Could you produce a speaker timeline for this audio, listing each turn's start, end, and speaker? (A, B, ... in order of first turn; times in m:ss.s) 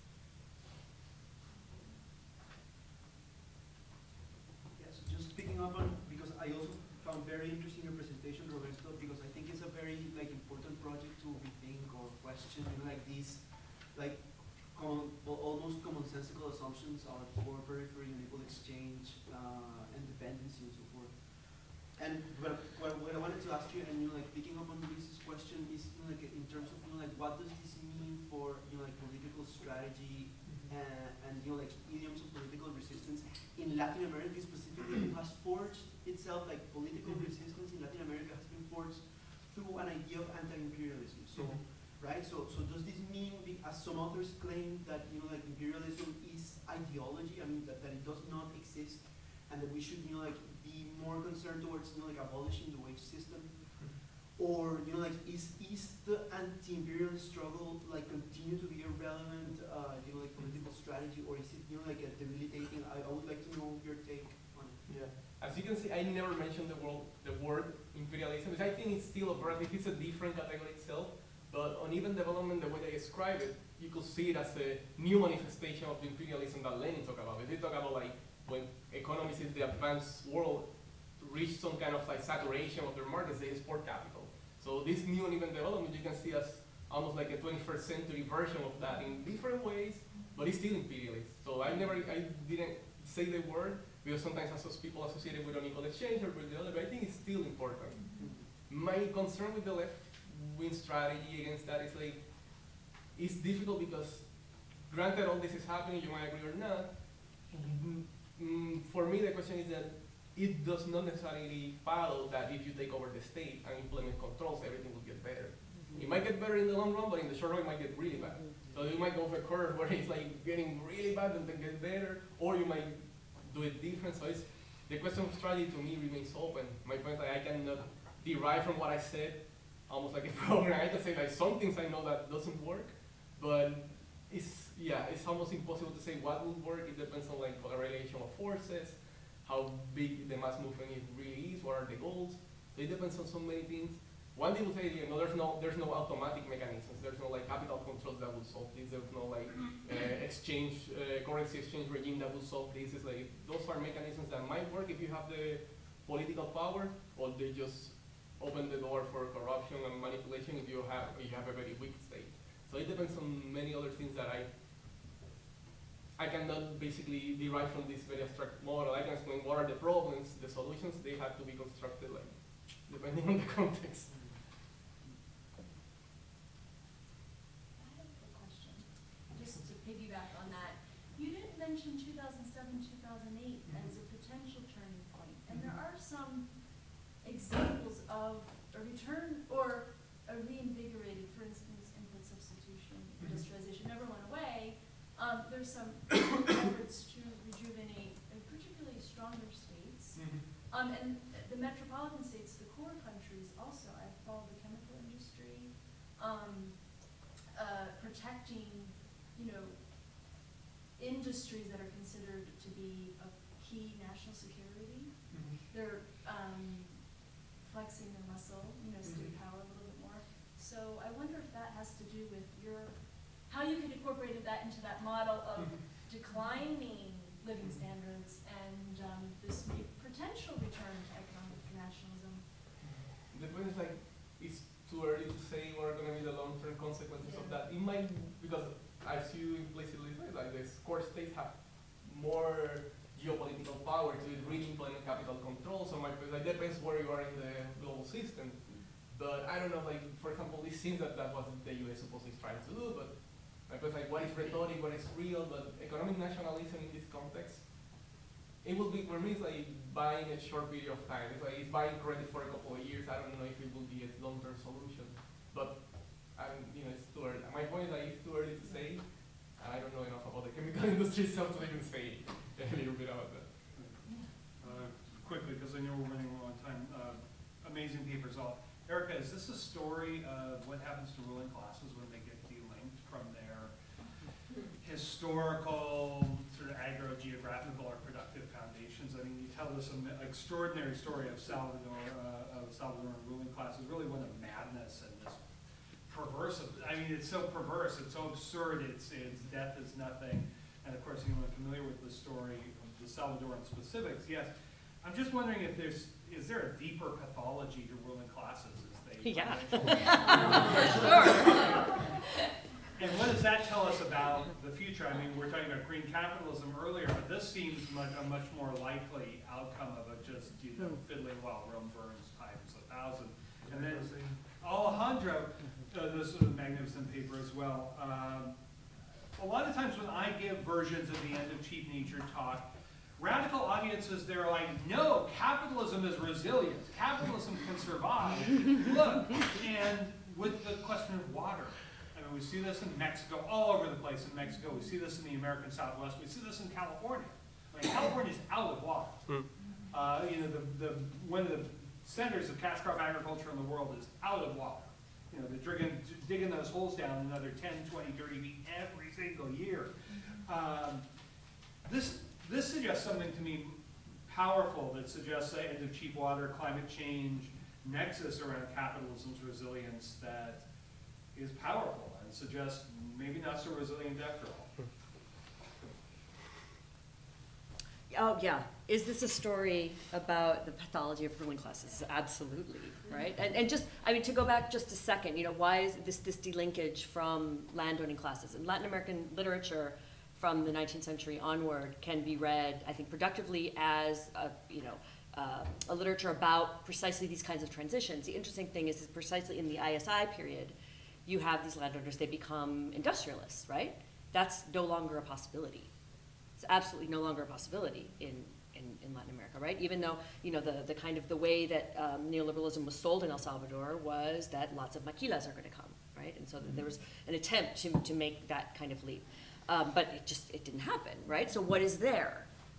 0:04.7-1:05.1 A
1:05.2-2:44.6 B
1:37.9-1:38.3 C
1:38.2-1:38.5 A
1:55.7-1:56.2 D
1:55.9-1:56.2 A
1:58.1-1:58.8 D
2:46.2-2:54.3 B
2:54.1-2:54.4 A
2:57.8-3:30.4 C
3:20.2-3:20.4 E
3:31.0-3:52.5 C
3:35.3-3:35.6 E
3:39.0-3:39.4 E
3:53.3-4:18.1 B
3:57.2-3:57.7 C
4:18.6-4:33.5 B
4:33.8-4:34.0 E
4:34.6-4:43.7 E
4:44.8-4:55.4 E
4:56.1-5:11.9 E
5:09.2-5:12.4 D
5:13.0-5:28.6 E
5:20.8-5:21.0 D
5:25.6-5:25.9 D
5:29.4-6:01.0 E
6:00.1-6:00.4 C
6:01.8-6:10.7 E
6:11.3-6:14.8 E
6:18.1-6:40.8 D
6:21.8-6:24.4 C
6:41.3-6:45.9 D
6:46.6-7:02.5 D